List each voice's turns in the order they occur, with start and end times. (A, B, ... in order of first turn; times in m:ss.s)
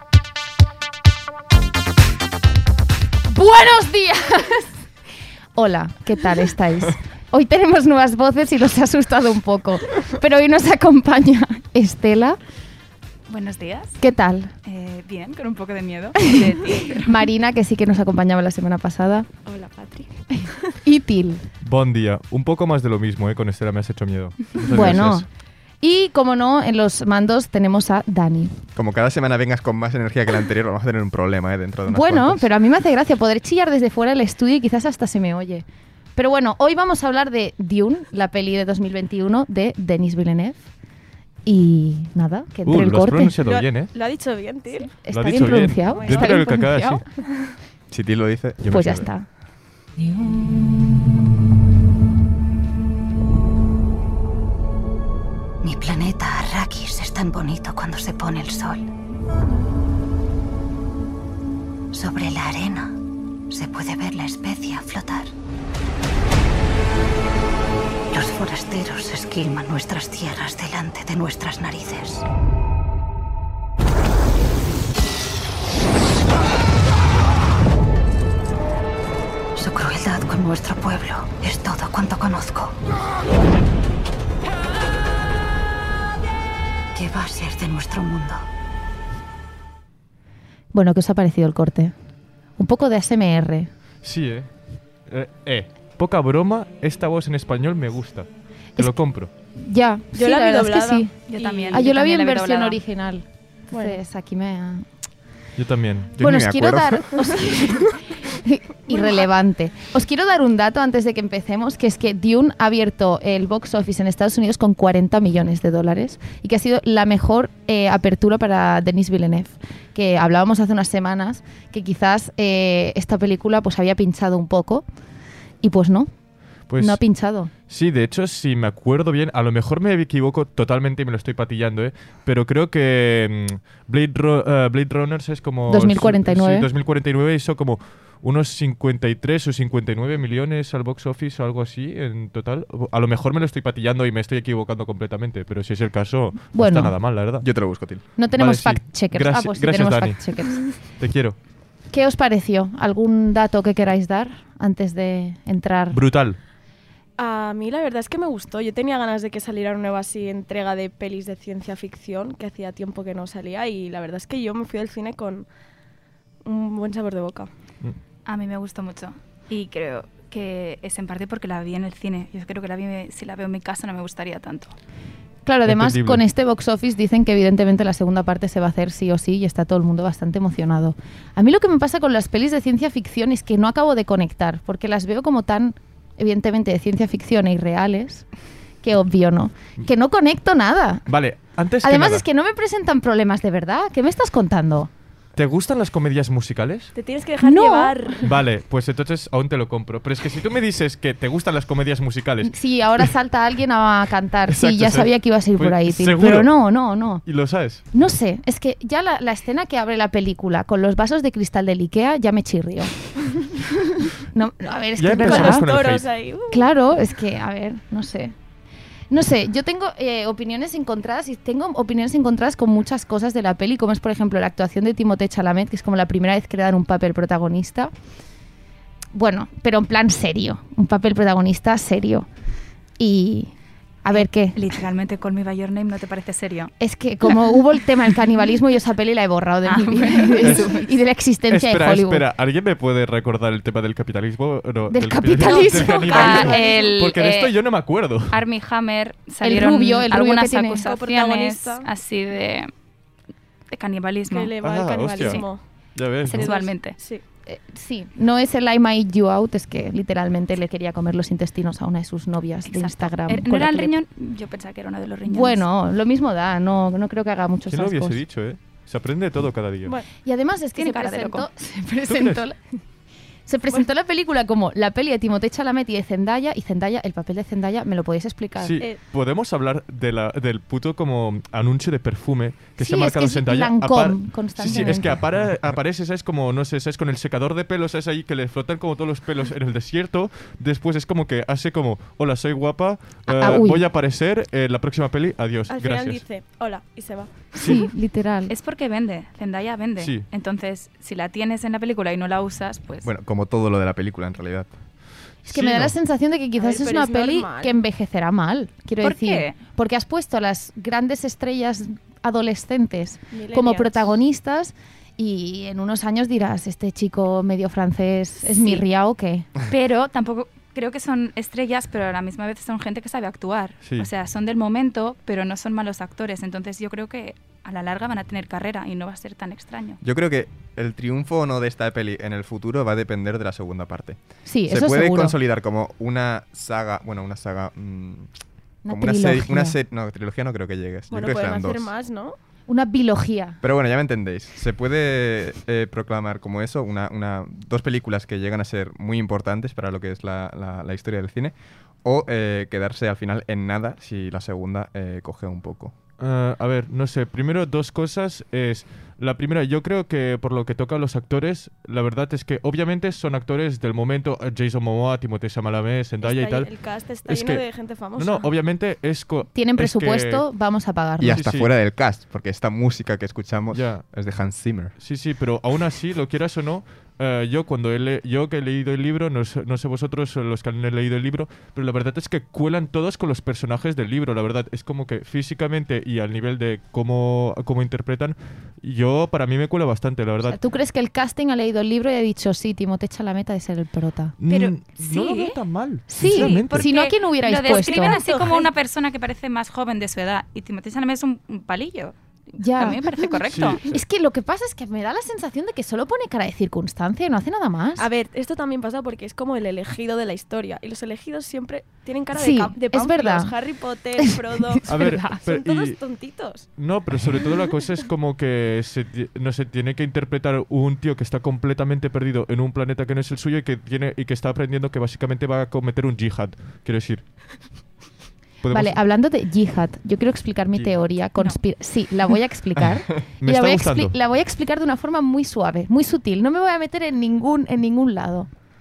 0:03.3-0:04.7 A
0:05.5-0:12.4 A
0:13.3-0:14.0 B
0:14.0-0:14.5 A
0:14.6-0:17.3 B
0:17.0-0:19.3 A
0:19.4-0:20.1 C
0:20.3-0:21.4 A
0:21.6-0:25.2 D
0:24.7-0:25.2 A
0:25.8-0:28.6 A
0:28.7-0:32.4 E
0:31.9-0:35.6 A
0:36.2-0:40.7 A
0:41.4-0:43.4 A
0:42.6-0:43.9 D
0:43.4-0:45.0 C
0:45.0-0:47.0 A
0:45.1-0:47.0 D
0:45.8-0:46.5 C
0:47.9-0:49.0 E
0:48.6-0:49.0 D
0:48.7-0:49.2 A
0:55.6-0:58.9 F
1:01.9-1:05.3 F
1:08.1-1:12.2 F
1:19.5-1:22.8 F
1:26.9-1:28.5 F
1:30.7-1:31.9 A
1:32.6-1:33.7 A
1:34.0-1:34.5 D
1:35.0-1:39.3 D
1:39.5-1:41.1 A
1:40.2-1:41.8 C
1:41.3-1:42.8 B
1:41.7-1:44.8 A
1:43.7-1:44.0 C
1:45.6-1:46.4 D
1:46.2-2:04.8 A
1:46.2-1:47.3 E
1:48.9-1:49.2 C
2:05.6-2:06.1 A
2:06.7-2:07.0 D
2:06.8-2:07.5 A
2:07.7-2:27.5 D
2:15.7-2:16.7 A
2:26.5-2:26.9 A
2:27.4-2:28.0 E
2:28.2-2:30.6 A
2:28.4-2:30.3 D
2:31.0-2:31.4 D
2:31.9-2:36.0 A
2:35.9-2:36.4 D
2:37.2-2:45.5 C
2:46.4-2:47.5 C
2:48.2-2:54.7 B
2:55.4-3:08.2 A
2:55.6-2:56.2 D
3:08.8-3:11.0 A
3:11.1-3:12.2 D
3:11.8-3:14.9 A
3:15.4-3:16.9 D
3:16.9-3:18.4 C
3:17.4-3:18.1 A
3:18.2-3:22.5 D
3:22.4-3:27.2 A
3:24.5-3:26.6 D
3:27.2-3:27.8 D
3:27.9-3:32.9 A
3:34.1-3:35.7 A
3:35.0-3:36.1 D
3:35.2-3:36.6 C
3:36.5-3:38.3 A
3:39.1-3:47.9 A
3:49.1-3:52.3 A
3:53.0-3:53.5 A
3:54.0-3:54.6 A
3:54.5-3:56.7 B
3:56.8-4:02.2 A
3:59.6-4:00.9 B
4:00.4-4:00.8 D
4:01.5-4:08.4 D
4:04.9-4:06.4 A
4:05.4-4:07.6 B
4:05.5-4:07.2 C
4:08.3-4:12.7 B
4:09.4-4:10.8 A
4:10.8-4:11.9 C
4:13.7-4:14.5 B
4:14.3-4:15.6 C
4:14.6-4:16.5 D
4:15.2-4:15.5 B
4:16.2-4:17.0 B
4:16.3-4:17.2 C
4:17.4-4:24.0 A
4:22.7-4:25.6 B
4:25.2-4:28.2 A
4:27.7-4:29.9 D
4:30.2-4:32.6 A
4:30.7-4:31.4 B
4:32.1-4:32.4 D
4:33.5-4:38.8 A
4:38.6-4:56.2 D
4:42.8-4:45.2 A
4:53.2-4:53.8 A
4:55.7-4:57.5 C
4:57.5-4:57.9 D
4:57.5-4:58.5 A
4:58.5-5:03.1 B
5:00.0-5:00.3 D
5:03.0-5:04.7 E
5:05.4-5:05.9 D
5:05.5-5:19.5 A
5:06.6-5:07.8 C
5:09.0-5:09.6 B
5:13.3-5:14.0 C
5:18.5-5:18.8 B
5:19.6-5:30.0 B
5:30.0-5:38.3 E
5:34.4-5:35.4 A
5:38.8-5:39.8 A
5:38.9-5:41.9 E
5:41.1-5:42.4 C
5:42.7-5:43.6 A
5:43.6-5:55.9 E
5:56.2-6:06.7 D
6:06.2-6:08.5 C
6:07.2-6:10.4 D
6:09.5-6:11.4 A
6:11.2-6:14.9 E
6:11.3-6:11.7 D
6:13.7-6:14.0 D
6:15.0-6:30.6 D
6:30.5-6:34.3 A
6:34.4-6:36.9 D
6:34.5-6:35.6 B
6:36.1-6:38.2 A
6:36.2-6:43.8 B
6:37.6-6:38.7 C
6:42.6-6:43.1 A
6:43.4-6:44.0 D
6:43.8-6:48.0 A
6:48.0-6:56.7 C
6:52.3-6:53.5 A
6:54.2-6:55.4 A
6:54.8-6:56.0 D
6:56.7-7:07.3 D
7:08.6-7:09.0 D
7:08.7-7:18.5 A
7:12.9-7:14.1 D